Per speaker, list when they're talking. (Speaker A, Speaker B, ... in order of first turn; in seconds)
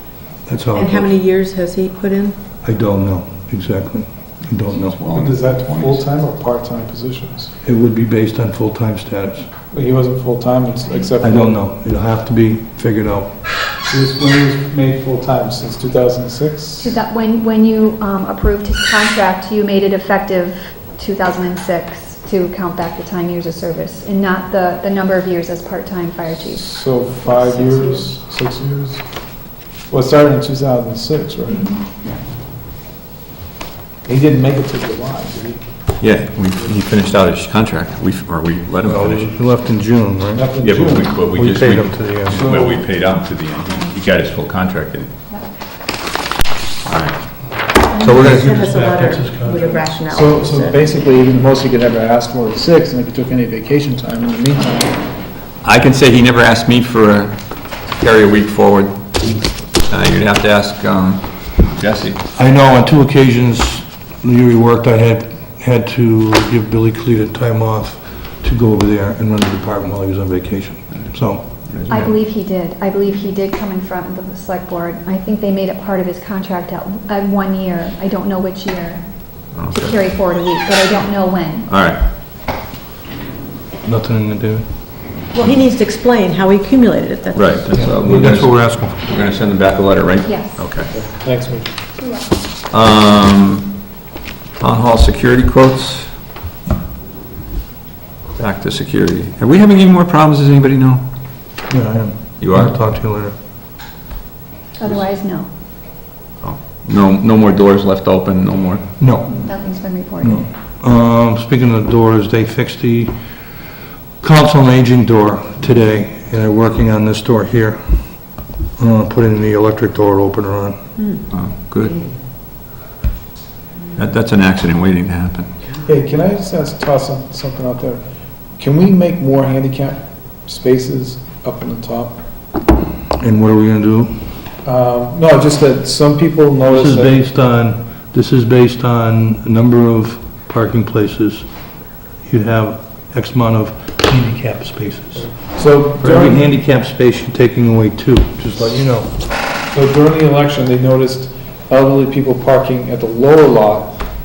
Speaker A: 0.5-1.1, 2.6-5.0, 7.6-9.5, 11.2-13.3, 38.8-40.5, 41.2-42.4, 48.0-49.9, 62.4-71.4, 83.8-84.6, 87.7-89.0, 101.7-103.3, 109.0-109.4, 110.2-113.2, 114.2-117.9, 118.8-120.8, 133.2-134.2, 136.7-141.5, 142.2-149.1
Speaker B: 0.7-2.4, 27.2-28.0, 47.9-50.8, 85.3-87.5
Speaker C: 4.7-6.0, 36.0-39.3, 40.6-45.1, 46.9-47.2, 55.6-57.4, 57.9-59.3, 59.8-62.2, 71.7-72.1, 79.5-79.9, 81.7-82.0, 87.3-90.9, 92.7-93.7, 94.6-96.1, 98.3-101.0, 102.4-102.8, 106.4-108.8, 121.3-122.0, 123.9-125.5
Speaker D: 5.1-7.5, 9.7-11.6, 13.9-17.0, 26.5-29.0, 29.9-31.7, 34.0-35.6, 40.3-41.2, 42.3-42.8, 50.1-55.0, 90.8-91.8, 125.8-128.0, 128.6-132.2, 134.6-137.2, 145.5-146.5, 149.7-154.0
Speaker E: 16.8-26.7, 31.6-32.1, 71.9-81.7, 90.2-90.7, 92.0-92.3, 104.8-105.5, 109.3-110.5